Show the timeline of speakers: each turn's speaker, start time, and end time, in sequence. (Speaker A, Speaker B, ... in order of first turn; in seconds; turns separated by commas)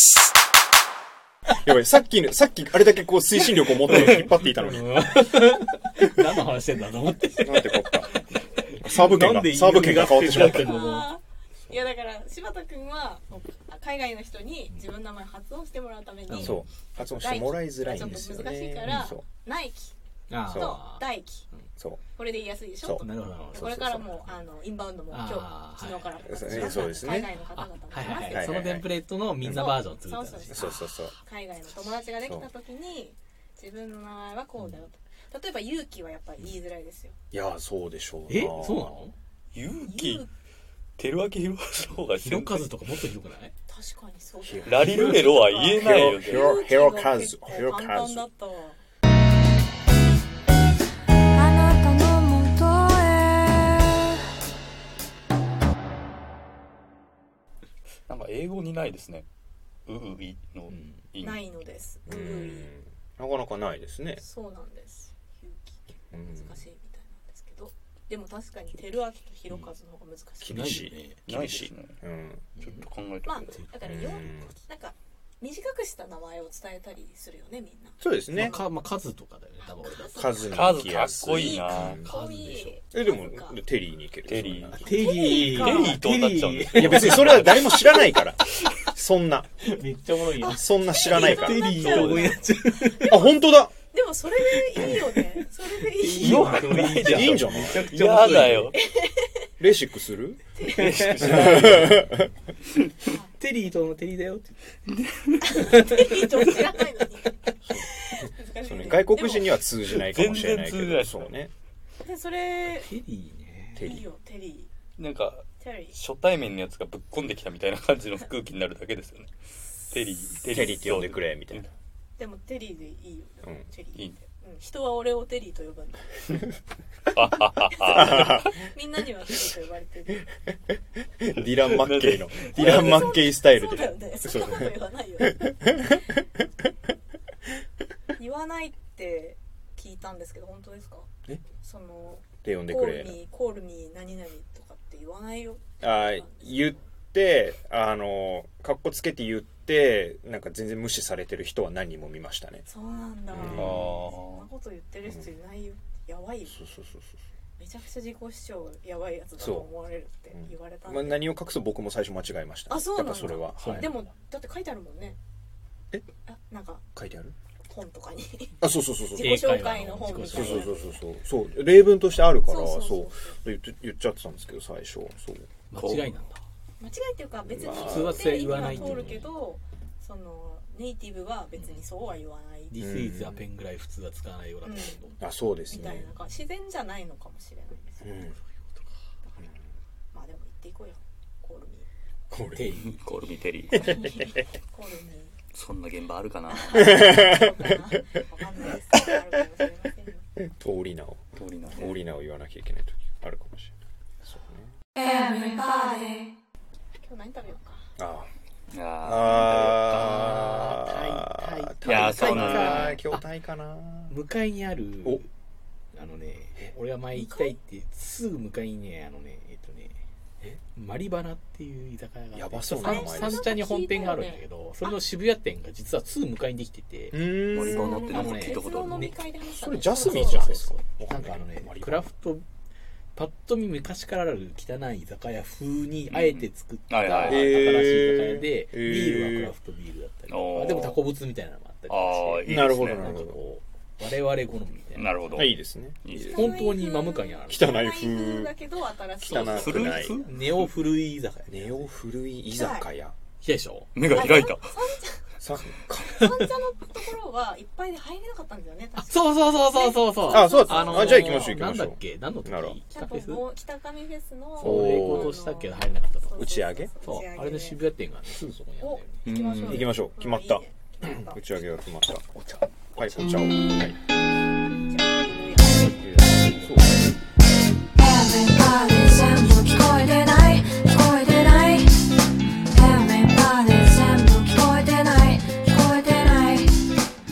Speaker A: 1.6-5.2, Speaker B: 3.9-11.1, Speaker C: 3.9-4.2, Speaker A: 7.4-8.2, Speaker A: 8.8-11.0, Speaker D: 10.5-19.9, Speaker B: 16.3-16.7, Speaker A: 16.3-19.2, Speaker B: 18.8-19.1, Speaker B: 20.3-21.6, Speaker D: 20.4-21.5, Speaker A: 20.5-20.8, Speaker D: 22.1-28.7, Speaker A: 22.8-24.1, Speaker B: 22.9-23.8, Speaker B: 25.1-30.8, Speaker A: 26.2-27.3, Speaker A: 28.2-28.9, Speaker A: 29.4-29.8, Speaker D: 29.4-37.1, Speaker A: 30.5-31.1, Speaker A: 32.2-32.5, Speaker A: 37.3-39.0, Speaker B: 38.3-39.1, Speaker C: 39.5-40.3, Speaker D: 39.8-40.3, Speaker C: 41.0-42.7, Speaker B: 42.2-43.5, Speaker D: 43.7-48.8, Speaker A: 44.4-48.2, Speaker C: 44.7-46.5, Speaker D: 51.4-53.0, Speaker E: 51.5-53.8, Speaker C: 58.1-59.2, Speaker C: 59.9-61.4, Speaker B: 60.7-61.0, Speaker D: 61.2-62.7, Speaker A: 62.0-64.2, Speaker D: 64.2-70.8, Speaker A: 66.1-66.7, Speaker A: 70.4-72.4, Speaker B: 70.5-71.2, Speaker C: 71.3-72.0, Speaker B: 72.6-72.8, Speaker C: 72.6-73.6, Speaker D: 73.2-78.7, Speaker B: 73.5-74.0, Speaker A: 73.8-74.5, Speaker A: 78.0-78.7, Speaker B: 78.3-80.4, Speaker D: 79.6-83.6, Speaker A: 80.1-82.1, Speaker C: 80.5-82.0, Speaker B: 82.0-82.8, Speaker A: 82.9-85.1, Speaker C: 84.2-84.8, Speaker B: 84.7-87.6, Speaker D: 84.8-86.0, Speaker C: 85.3-88.1, Speaker A: 86.7-89.7, Speaker B: 89.6-93.2, Speaker A: 90.4-91.8, Speaker D: 90.5-97.5, Speaker C: 91.8-92.4, Speaker A: 93.0-93.7, Speaker B: 95.9-98.7, Speaker A: 96.1-97.9, Speaker C: 96.2-98.8, Speaker D: 98.7-99.5, Speaker A: 99.6-100.5, Speaker D: 100.5-101.5, Speaker C: 100.7-102.0, Speaker A: 101.1-102.3, Speaker B: 103.4-104.6, Speaker C: 104.9-105.5, Speaker D: 105.4-109.6, Speaker B: 105.6-106.4, Speaker A: 107.6-111.5, Speaker C: 109.9-111.3, Speaker D: 112.0-112.9, Speaker B: 112.8-113.8, Speaker A: 113.8-114.1, Speaker D: 113.8-114.7, Speaker C: 115.0-119.3, Speaker D: 115.6-116.0, Speaker C: 119.9-121.7, Speaker A: 120.4-121.7, Speaker D: 122.2-126.5, Speaker C: 127.1-128.7, Speaker A: 127.9-128.5, Speaker D: 127.9-130.3, Speaker A: 131.2-134.7, Speaker C: 131.4-133.2, Speaker D: 132.4-136.0, Speaker A: 135.3-135.9, Speaker D: 138.1-146.8, Speaker A: 142.4-143.2, Speaker A: 145.8-152.6, Speaker D: 152.7-156.6, Speaker A: 153.3-153.9, Speaker C: 153.3-154.5, Speaker A: 156.5-157.2, Speaker D: 157.6-161.3, Speaker A: 159.4-159.7, Speaker A: 160.3-163.9, Speaker D: 162.7-165.2, Speaker B: 163.5-163.9, Speaker D: 166.2-166.8, Speaker A: 166.9-167.3, Speaker D: 167.7-168.6, Speaker A: 168.6-169.5, Speaker D: 169.1-170.9, Speaker B: 169.2-170.7, Speaker A: 170.3-175.5, Speaker D: 172.4-173.4, Speaker B: 175.7-176.4, Speaker C: 175.7-176.1, Speaker D: 176.8-182.8, Speaker A: 177.4-179.0, Speaker B: 177.8-179.3, Speaker B: 182.7-185.9, Speaker A: 182.8-183.4, Speaker D: 184.6-185.0, Speaker A: 185.2-186.1, Speaker D: 185.7-188.1, Speaker A: 188.0-188.3, Speaker D: 189.2-189.5, Speaker D: 190.1-191.9, Speaker A: 192.3-192.7, Speaker B: 192.5-193.0, Speaker C: 193.0-194.0, Speaker D: 193.7-195.4, Speaker A: 193.8-194.1, Speaker C: 195.5-197.1, Speaker D: 196.5-200.3, Speaker A: 196.7-197.8, Speaker A: 200.4-204.7, Speaker C: 201.3-202.0, Speaker D: 205.0-206.3, Speaker D: 207.0-207.9, Speaker A: 208.0-208.3, Speaker C: 208.7-210.3, Speaker A: 209.0-214.2, Speaker B: 209.9-213.2, Speaker C: 211.8-213.0, Speaker B: 214.1-215.3, Speaker B: 215.9-220.0, Speaker D: 217.1-217.6, Speaker B: 220.7-227.2, Speaker A: 222.3-223.5, Speaker D: 222.7-224.4, Speaker A: 227.1-228.2, Speaker C: 227.5-229.2, Speaker D: 227.6-230.5, Speaker B: 228.1-229.2, Speaker A: 229.4-232.1, Speaker B: 229.9-232.4, Speaker B: 233.1-245.1, Speaker C: 236.1-237.4, Speaker A: 237.2-239.5, Speaker C: 240.3-241.0, Speaker C: 241.9-243.2, Speaker A: 242.4-243.4, Speaker C: 244.9-246.5, Speaker A: 245.3-246.3, Speaker D: 246.1-250.4, Speaker B: 246.3-247.7, Speaker A: 247.5-248.5, Speaker A: 249.2-250.2, Speaker C: 249.3-250.7, Speaker B: 250.2-251.8, Speaker A: 251.5-253.1, Speaker D: 252.5-252.9, Speaker B: 253.4-253.9, Speaker C: 253.9-254.8, Speaker D: 254.0-255.3, Speaker A: 255.4-256.2, Speaker D: 256.0-261.6, Speaker B: 259.0-263.4, Speaker A: 260.2-262.8, Speaker D: 262.9-267.9, Speaker A: 264.6-265.3, Speaker B: 264.6-266.5, Speaker A: 266.3-266.9, Speaker B: 267.0-269.2, Speaker D: 268.8-271.6, Speaker C: 269.2-269.9, Speaker A: 269.6-274.0, Speaker D: 273.0-273.3, Speaker D: 274.8-276.6, Speaker A: 275.8-277.2, Speaker D: 278.0-281.4, Speaker E: 278.1-282.1, Speaker E: 282.7-287.0